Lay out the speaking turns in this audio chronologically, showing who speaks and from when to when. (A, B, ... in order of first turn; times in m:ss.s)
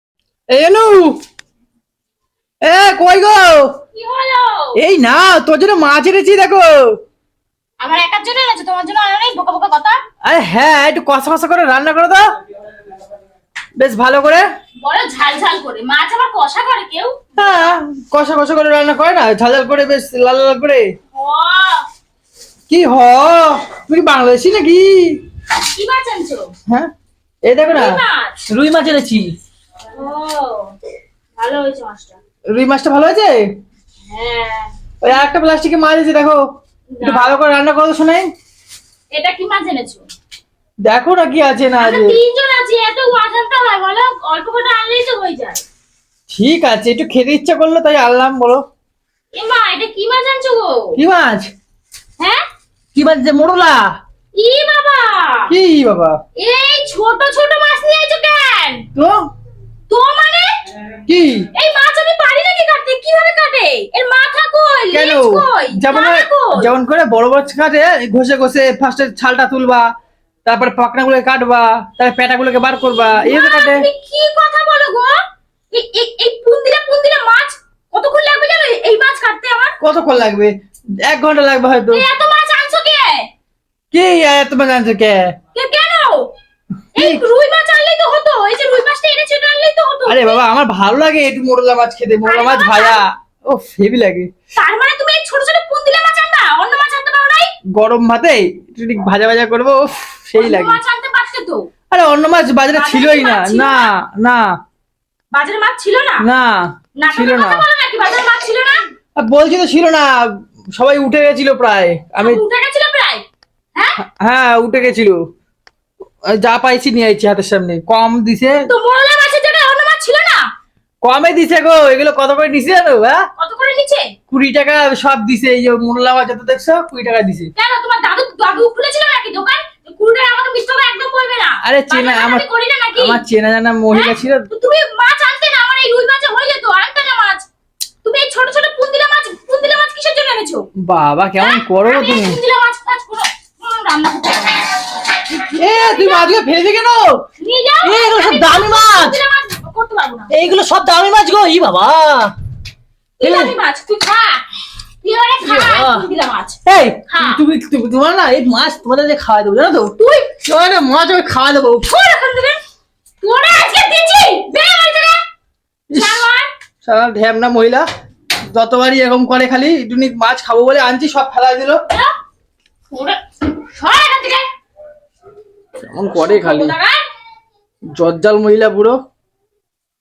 0:00.5-0:01.2 A
0:02.6-0:03.7 A
0:04.0-0:04.8 B
0:04.8-0:06.7 A
0:07.8-0:10.0 B
0:10.2-0:12.3 A
0:13.8-0:14.5 A
0:14.8-0:17.8 B
0:17.4-0:20.9 A
0:21.1-0:21.9 B
0:22.7-0:25.2 A
0:25.6-0:26.5 B
0:27.5-0:29.3 A
0:27.7-0:28.4 B
0:29.9-0:30.8 B
0:31.4-0:32.2 B
0:32.5-0:33.4 A
0:34.1-0:34.7 B
0:35.0-0:36.4 A
0:37.0-0:37.4 B
0:37.0-0:38.3 A
0:39.1-0:40.1 B
0:40.9-0:42.2 A
0:41.8-0:45.6 B
0:46.3-0:48.6 A
0:49.3-0:51.0 B
0:51.0-0:51.5 A
0:53.0-0:54.0 A
0:54.4-0:55.5 B
0:55.5-0:56.2 A
0:56.4-0:58.9 B
0:59.9-1:00.5 B
1:01.1-1:01.5 A
1:01.5-1:06.7 B
1:04.9-1:09.8 A
1:10.4-1:13.9 A
1:12.8-1:15.2 B
1:15.7-1:19.8 B
1:19.8-1:22.1 A
1:21.9-1:23.2 B
1:23.9-1:25.3 A
1:25.5-1:26.3 B
1:27.0-1:30.4 B
1:27.0-1:27.2 A
1:30.1-1:34.3 A
1:32.2-1:33.0 B
1:34.6-1:37.5 B
1:37.7-1:40.8 A
1:40.4-1:41.7 B
1:41.9-1:44.5 A
1:42.7-1:43.9 B
1:45.3-1:46.3 B
1:46.2-1:47.6 A
1:47.0-1:48.8 B
1:49.2-1:52.4 A
1:52.2-1:53.2 B
1:54.0-1:55.2 A
1:56.3-1:58.7 A
1:58.7-2:00.5 B
2:01.0-2:03.2 A
2:03.4-2:04.2 B
2:04.3-2:07.5 A
2:07.6-2:13.2 B
2:11.6-2:14.5 A
2:13.9-2:17.5 B
2:18.0-2:20.7 B
2:20.8-2:22.4 A
2:21.4-2:24.8 B
2:25.4-2:27.2 A
2:25.5-2:26.4 B
2:27.4-2:30.3 B
2:27.8-2:29.2 A
2:30.3-2:32.3 A
2:33.2-2:34.5 B
2:33.2-2:33.5 A
2:35.0-2:37.4 B
2:35.4-2:36.1 A
2:36.7-2:39.9 A
2:40.0-2:40.4 B
2:40.4-2:41.9 A
2:41.8-2:42.6 B
2:43.2-2:45.2 B
2:45.9-2:46.3 A
2:45.9-2:46.5 B
2:46.8-2:47.9 A
2:48.5-2:51.8 A
2:52.9-2:54.5 B
2:55.8-2:56.8 A
2:56.1-2:57.0 B
2:58.0-2:59.0 A